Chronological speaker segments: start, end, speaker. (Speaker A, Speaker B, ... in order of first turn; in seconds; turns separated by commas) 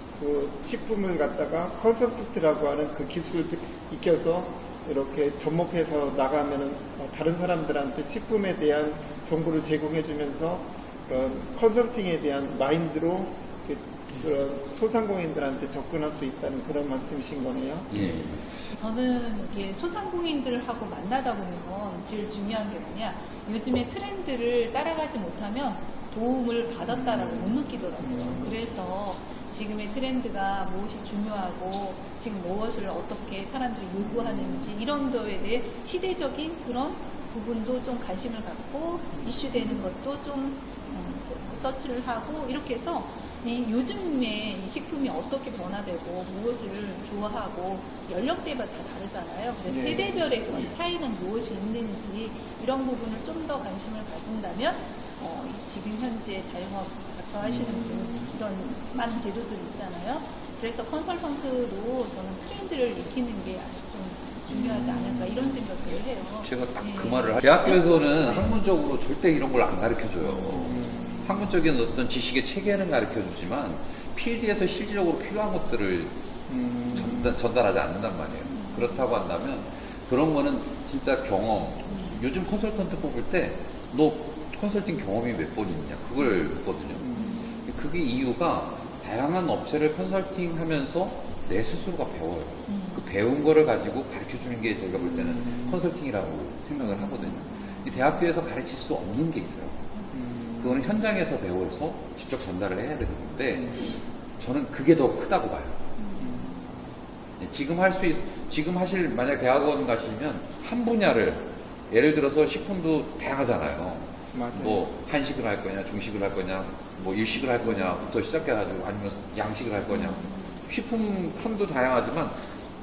Speaker A: 0.2-18.0, Speaker B: 17.9-18.4, Speaker C: 18.7-68.6, Speaker A: 26.9-28.6, Speaker A: 34.0-34.7, Speaker A: 39.1-39.8, Speaker A: 49.7-50.4, Speaker A: 57.4-58.3, Speaker A: 64.5-65.6, Speaker B: 66.4-76.2, Speaker A: 70.6-71.5, Speaker C: 70.7-71.3, Speaker A: 76.5-77.3, Speaker B: 76.9-99.8, Speaker C: 78.5-79.0, Speaker A: 87.0-87.4, Speaker C: 87.2-87.6, Speaker C: 92.7-93.0, Speaker A: 95.0-95.8, Speaker C: 96.8-97.8, Speaker A: 100.1-100.8, Speaker B: 100.6-103.8, Speaker A: 103.5-104.0, Speaker B: 104.4-105.8, Speaker C: 106.0-106.6, Speaker A: 106.2-106.5, Speaker B: 107.4-122.4, Speaker A: 114.3-114.9, Speaker C: 119.9-120.5